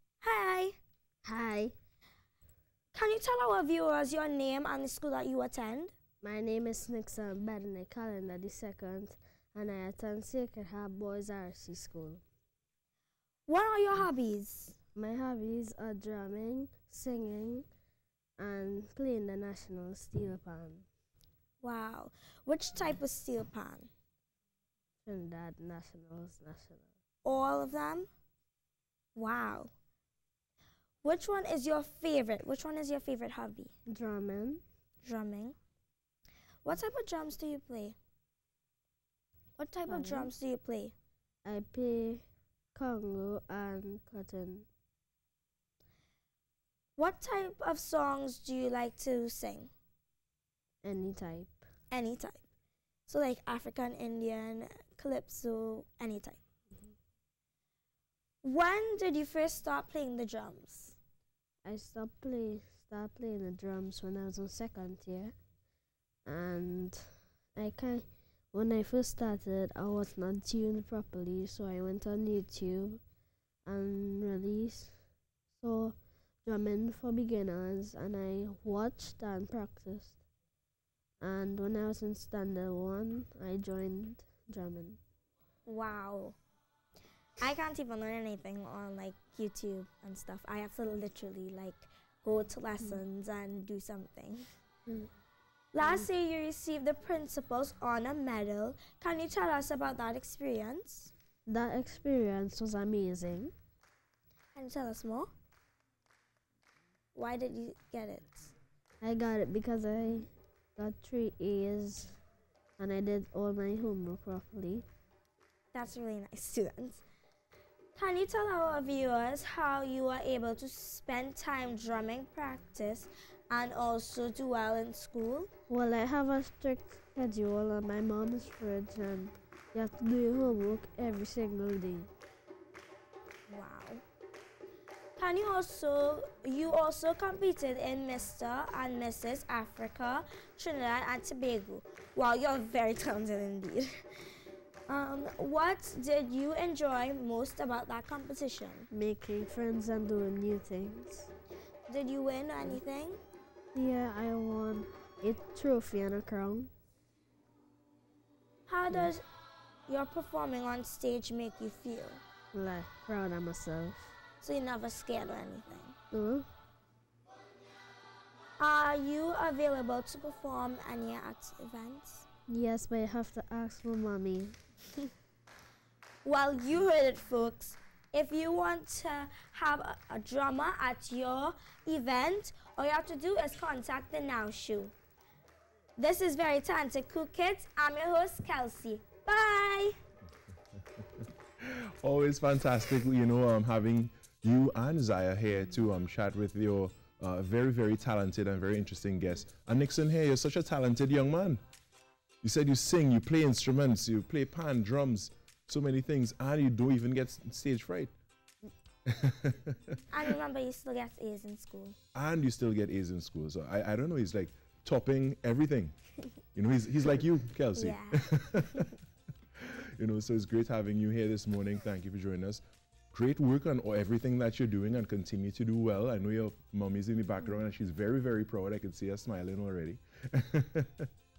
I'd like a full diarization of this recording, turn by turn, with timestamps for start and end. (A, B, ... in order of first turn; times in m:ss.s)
0:00.2-0:00.8 A
0:01.2-0:01.7 B
0:02.9-0:05.9 A
0:06.2-0:12.2 B
0:13.5-0:14.8 A
0:14.9-0:17.7 B
0:18.4-0:20.8 B
0:21.6-0:23.9 A
0:25.0-0:26.9 B
0:27.2-0:28.1 A
0:29.1-0:29.7 A
0:31.0-0:33.7 A
0:33.9-0:34.6 B
0:35.0-0:35.6 A
0:36.6-0:38.0 A
0:39.6-0:40.9 A
0:39.9-0:40.3 B
0:41.4-0:44.7 B
0:47.0-0:49.7 A
0:50.8-0:51.6 B
0:51.9-0:52.4 A
0:53.1-0:56.4 A
0:58.4-1:01.0 A
1:01.6-1:05.3 B
1:06.2-1:13.0 B
1:13.6-1:15.0 B
1:15.6-1:20.2 B
1:21.2-1:25.0 B
1:25.6-1:26.4 A
1:27.4-1:34.4 A
1:35.7-1:41.1 A
1:41.5-1:43.5 B
1:44.5-1:45.3 A
1:47.1-1:48.5 A
1:49.0-1:52.2 B
1:52.8-1:54.8 B
1:55.7-1:57.0 A
1:57.9-2:05.5 A
2:05.7-2:12.1 B
2:13.5-2:14.0 A
2:15.2-2:23.9 A
2:24.9-2:28.9 A
2:28.9-2:31.3 B
2:31.9-2:33.2 A
2:33.7-2:36.7 B
2:38.7-2:39.2 A
2:39.9-2:42.2 A
2:42.5-2:44.1 B
2:44.4-2:45.9 A
2:46.1-2:46.5 B
2:48.6-2:52.3 A
2:52.5-2:54.6 B
2:56.2-3:04.9 A
3:06.0-3:10.0 A
3:11.6-3:21.6 C
3:22.4-3:28.1 C
3:29.0-3:30.0 C
3:30.1-3:32.0 A
3:32.1-3:35.9 C
3:36.5-3:38.9 C
3:37.8-3:38.9 A
3:39.6-3:51.1 C